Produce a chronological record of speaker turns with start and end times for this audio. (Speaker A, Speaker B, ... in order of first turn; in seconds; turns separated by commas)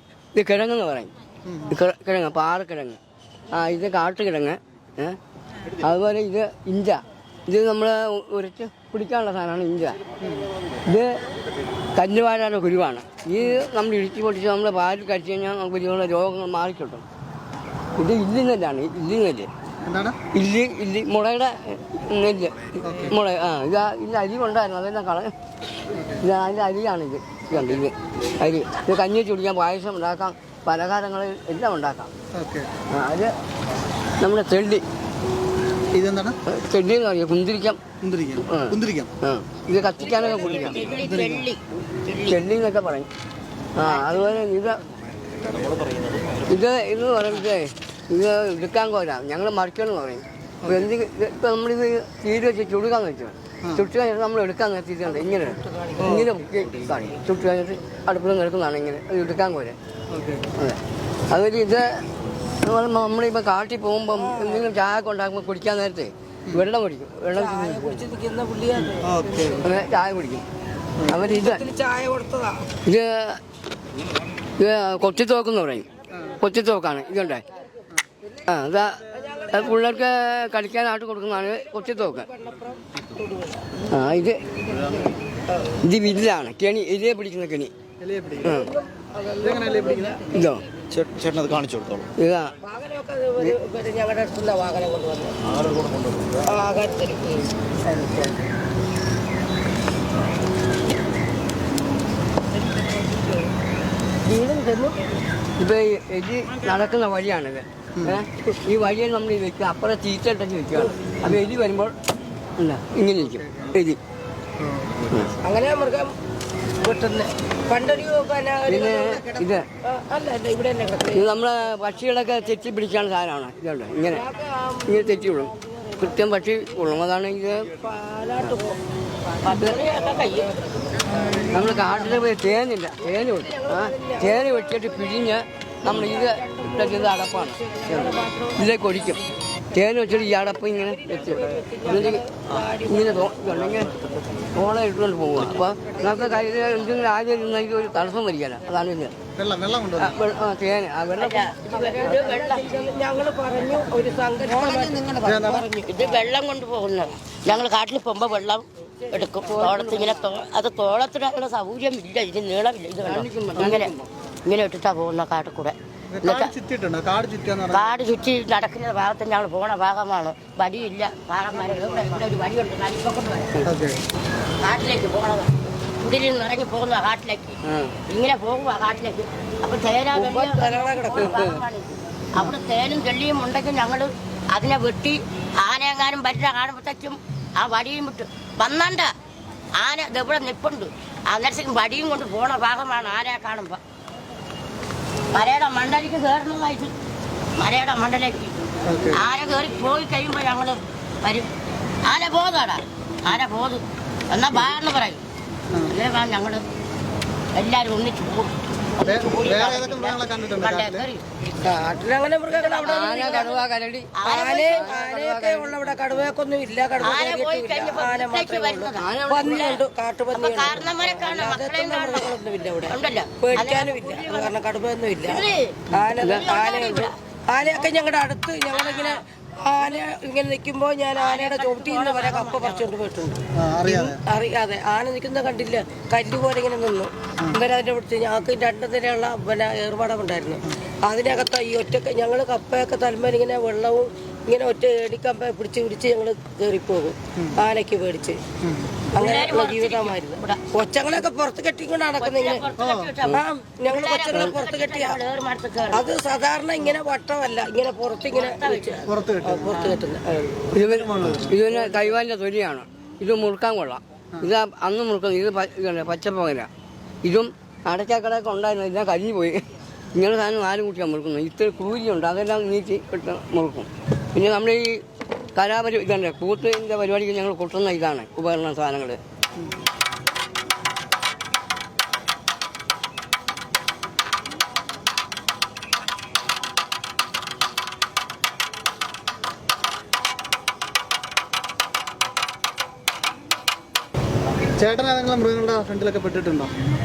Speaker A: 0.3-1.1, Speaker B: 1.4-1.7, Speaker A: 1.7-3.0, Speaker A: 3.5-10.0, Speaker B: 10.2-10.5, Speaker A: 10.8-11.2, Speaker A: 11.9-17.0, Speaker A: 17.9-19.5, Speaker B: 19.8-20.2, Speaker A: 20.3-25.3, Speaker B: 22.8-23.1, Speaker B: 25.9-26.2, Speaker A: 26.2-32.1, Speaker B: 32.3-32.7, Speaker A: 32.9-33.3, Speaker A: 34.2-34.8, Speaker B: 35.9-36.4, Speaker A: 36.5-37.8, Speaker B: 38.0-39.1, Speaker A: 38.4-40.9, Speaker C: 40.1-42.4, Speaker B: 40.9-41.5, Speaker A: 42.3-43.1, Speaker A: 43.8-44.9, Speaker C: 43.8-44.3, Speaker D: 45.4-46.4, Speaker A: 46.5-59.8, Speaker B: 50.6-50.9, Speaker E: 55.0-56.3, Speaker B: 56.0-56.3, Speaker B: 60.1-60.4, Speaker A: 60.5-62.1, Speaker A: 62.6-68.0, Speaker E: 64.1-64.7, Speaker E: 67.3-69.7, Speaker B: 68.8-69.6, Speaker A: 69.6-70.4, Speaker A: 71.1-71.6, Speaker E: 71.1-72.7, Speaker A: 72.8-73.4, Speaker A: 74.6-75.9, Speaker B: 76.1-76.4, Speaker A: 76.4-77.4, Speaker A: 78.5-82.3, Speaker E: 79.1-80.0, Speaker E: 81.3-83.8, Speaker A: 83.9-84.4, Speaker E: 85.5-85.8, Speaker A: 85.8-87.7, Speaker B: 88.0-88.6, Speaker A: 88.4-88.7, Speaker E: 88.5-90.2, Speaker B: 89.4-90.3, Speaker A: 90.3-90.6, Speaker D: 90.9-92.1, Speaker A: 92.2-92.5, Speaker E: 92.6-95.4, Speaker D: 95.5-96.4, Speaker E: 96.4-97.5, Speaker B: 97.9-98.3, Speaker E: 104.2-105.1, Speaker A: 105.6-112.0, Speaker B: 108.0-108.2, Speaker A: 112.6-114.0, Speaker B: 113.2-113.8, Speaker B: 114.6-115.0, Speaker A: 115.1-115.3, Speaker E: 115.4-116.2, Speaker E: 116.8-121.3, Speaker A: 118.7-119.7, Speaker A: 121.1-124.3, Speaker E: 124.0-126.4, Speaker A: 124.8-127.7, Speaker E: 127.8-128.8, Speaker C: 129.4-130.6, Speaker E: 130.3-131.7, Speaker A: 131.5-143.9, Speaker E: 133.0-135.2, Speaker E: 135.8-138.8, Speaker E: 140.8-143.5, Speaker A: 144.5-149.2, Speaker E: 145.8-146.8, Speaker B: 149.3-150.2, Speaker A: 150.0-151.5, Speaker C: 151.2-152.7, Speaker E: 151.7-156.0, Speaker B: 155.2-155.7, Speaker C: 155.7-163.9, Speaker A: 159.4-160.2, Speaker A: 163.0-164.1, Speaker C: 164.4-166.5, Speaker B: 166.1-168.0, Speaker C: 167.7-173.6, Speaker B: 173.6-174.0, Speaker C: 174.6-189.1, Speaker A: 177.6-178.0, Speaker E: 180.1-181.4, Speaker A: 181.2-181.6, Speaker C: 189.8-193.8, Speaker C: 195.3-196.9, Speaker C: 197.6-198.6, Speaker B: 198.8-199.2, Speaker C: 199.1-201.5, Speaker C: 202.0-205.2, Speaker B: 205.7-205.9, Speaker C: 205.9-206.6, Speaker C: 207.5-211.7, Speaker B: 209.0-211.1, Speaker E: 211.6-213.5, Speaker C: 212.5-213.6, Speaker A: 212.8-216.3, Speaker C: 214.1-214.9, Speaker E: 214.2-248.4, Speaker C: 217.0-224.6, Speaker A: 219.0-219.8, Speaker C: 225.2-227.9, Speaker A: 226.2-226.4, Speaker C: 228.7-229.2, Speaker C: 231.1-232.9, Speaker B: 233.5-234.2, Speaker B: 248.6-249.0, Speaker C: 249.1-250.6, Speaker E: 249.1-252.7, Speaker C: 252.2-256.1, Speaker B: 252.8-253.1, Speaker E: 253.3-255.2, Speaker E: 255.9-260.7, Speaker C: 258.3-259.2, Speaker B: 259.1-259.9, Speaker A: 260.7-266.7, Speaker B: 260.7-261.6, Speaker A: 267.2-275.0, Speaker A: 275.5-279.2, Speaker B: 294.7-296.7